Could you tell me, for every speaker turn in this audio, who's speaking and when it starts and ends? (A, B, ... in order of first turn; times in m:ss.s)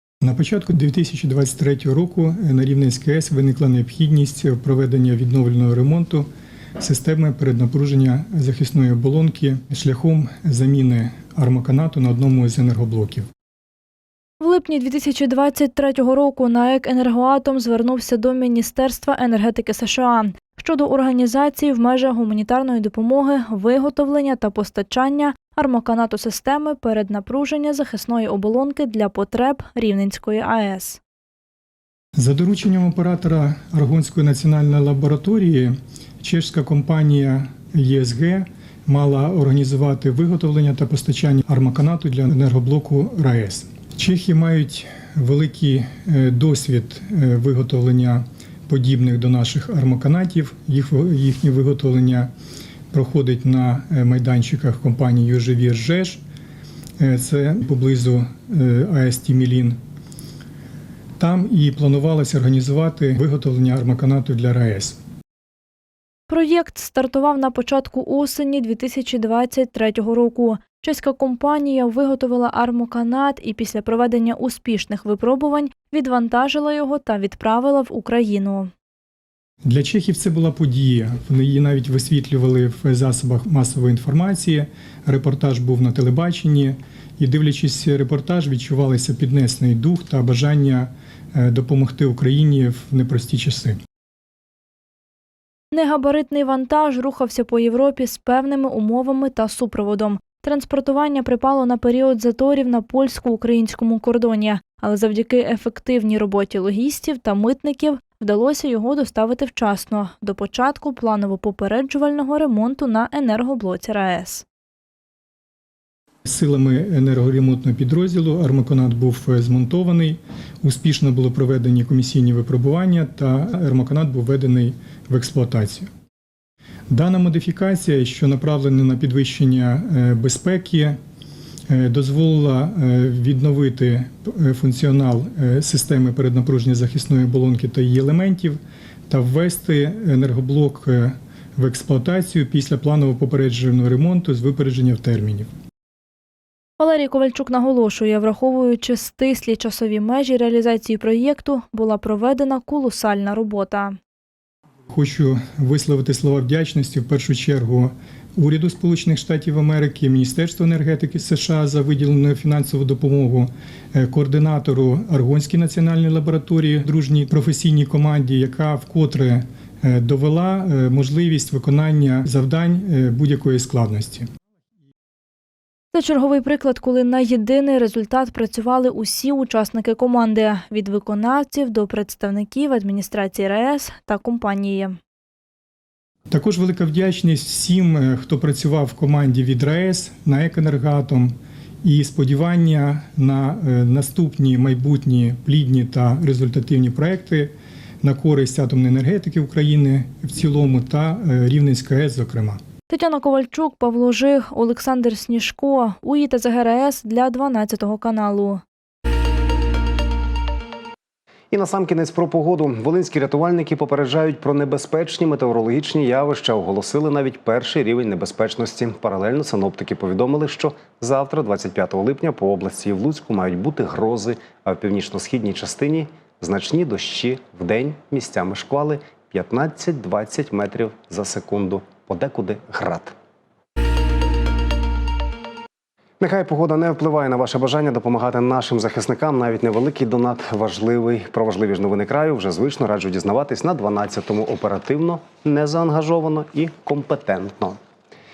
0:00.2-0:06.3 A
0:06.8-0:13.3 A
0:14.4-0:31.0 B
0:32.2-0:52.3 A
0:52.9-0:56.2 A
0:57.0-0:59.8 A
1:01.2-1:05.0 A
1:06.3-1:18.7 B
1:19.6-1:33.8 A
1:35.7-1:54.4 B
1:56.3-2:05.9 A
2:06.9-2:11.0 A
2:11.7-2:18.6 A
2:19.1-2:25.5 A
2:26.8-2:34.0 B
2:34.9-2:54.3 A
2:55.9-3:05.0 B
3:06.3-3:11.3 A
3:11.8-3:22.6 A
3:22.9-3:28.6 B
3:31.5-3:53.1 C
3:56.2-4:07.8 C